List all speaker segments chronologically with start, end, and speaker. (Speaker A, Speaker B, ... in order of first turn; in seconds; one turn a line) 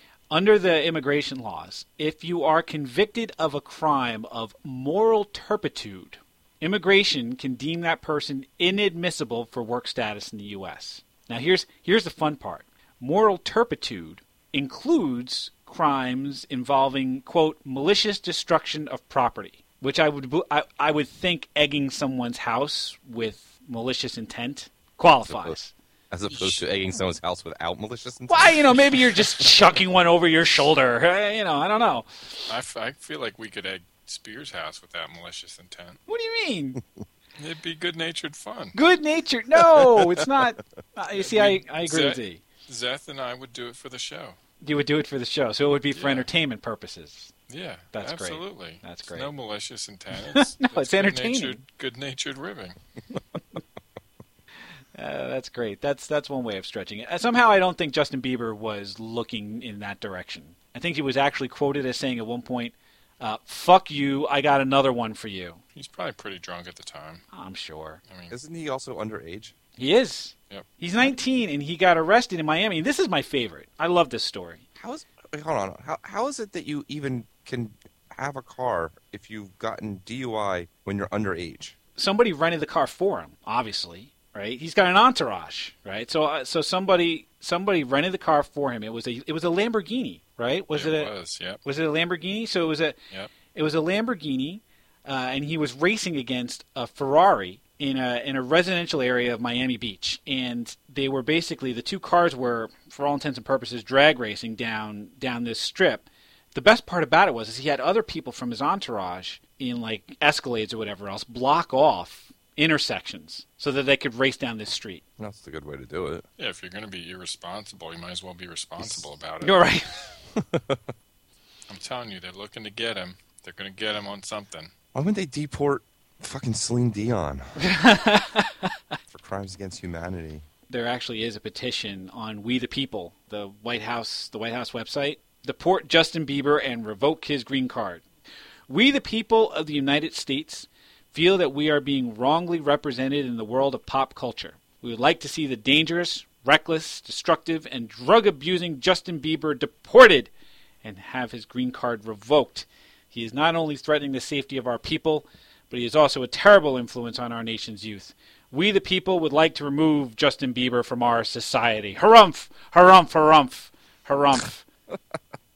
Speaker A: 0.3-25.7
Speaker B: 25.3-25.6
Speaker B: 26.1-29.3
Speaker A: 28.3-32.5
Speaker C: 32.5-36.0
Speaker A: 36.1-36.8
Speaker C: 37.4-38.8
Speaker A: 38.7-42.4
Speaker B: 39.8-40.2
Speaker C: 41.1-44.4
Speaker A: 44.6-47.3
Speaker C: 45.9-46.3
Speaker C: 47.5-52.8
Speaker A: 47.9-49.3
Speaker A: 50.3-51.6
Speaker A: 54.9-65.6
Speaker C: 65.7-67.2
Speaker A: 67.3-68.0
Speaker C: 68.1-68.3
Speaker B: 68.3-69.5
Speaker A: 69.8-74.6
Speaker B: 74.8-81.7
Speaker A: 82.0-91.1
Speaker C: 90.7-91.6
Speaker A: 91.6-93.0
Speaker A: 93.5-115.0
Speaker B: 115.2-116.2
Speaker C: 116.4-119.6
Speaker B: 118.8-119.1
Speaker A: 119.4-120.2
Speaker B: 120.5-120.8
Speaker C: 121.7-124.7
Speaker B: 124.9-127.5
Speaker A: 127.6-128.7
Speaker B: 129.1-130.4
Speaker A: 130.7-138.0
Speaker A: 138.7-150.3
Speaker A: 150.8-164.6